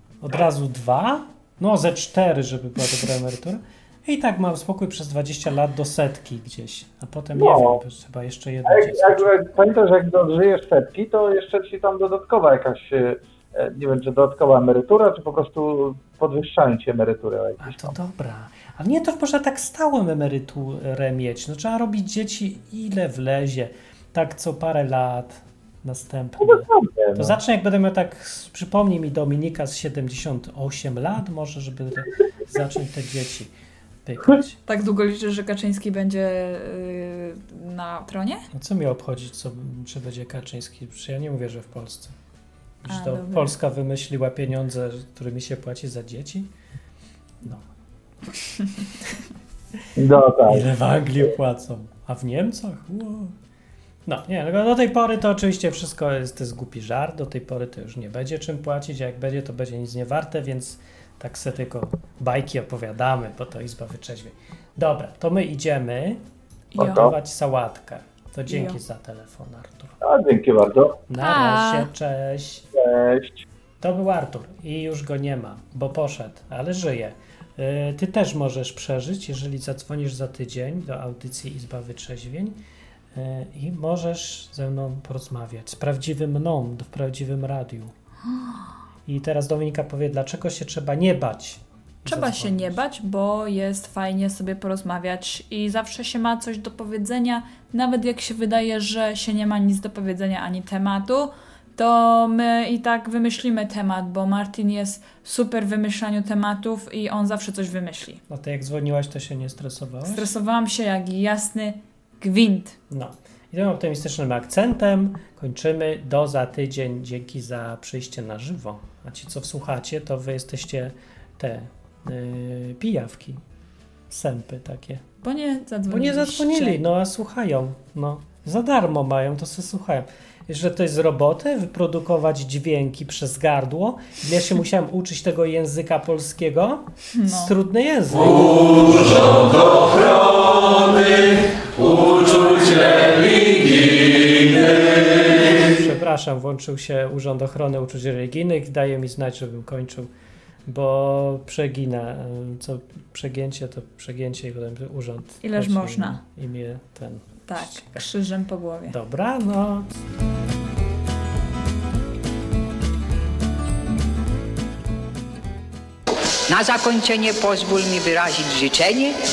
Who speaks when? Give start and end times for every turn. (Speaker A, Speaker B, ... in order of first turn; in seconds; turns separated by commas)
Speaker A: 0.2-9.4, Speaker B: 7.3-7.8, Speaker B: 8.7-17.9, Speaker A: 17.6-26.6, Speaker B: 26.4-27.4, Speaker A: 27.2-33.5, Speaker A: 34.0-34.6, Speaker C: 34.7-38.5, Speaker A: 38.5-42.1, Speaker A: 42.8-46.5, Speaker C: 42.9-43.5, Speaker B: 50.0-50.7, Speaker A: 50.5-53.3, Speaker A: 54.0-66.2, Speaker C: 66.7-67.1, Speaker A: 66.8-70.0, Speaker C: 68.5-68.8, Speaker B: 70.0-71.0, Speaker A: 71.1-72.6, Speaker C: 71.2-71.9, Speaker B: 72.7-73.5, Speaker A: 73.8-82.6, Speaker A: 83.1-87.9, Speaker C: 88.3-88.7, Speaker A: 89.0-92.8, Speaker C: 92.1-108.2, Speaker A: 108.3-110.3, Speaker C: 110.0-112.8, Speaker A: 112.9-123.4, Speaker A: 124.1-125.0, Speaker C: 125.2-126.8, Speaker A: 125.9-150.1, Speaker C: 137.1-137.5, Speaker A: 150.7-158.1, Speaker C: 155.4-156.2, Speaker C: 157.5-158.9, Speaker A: 158.9-160.0, Speaker D: 166.5-169.2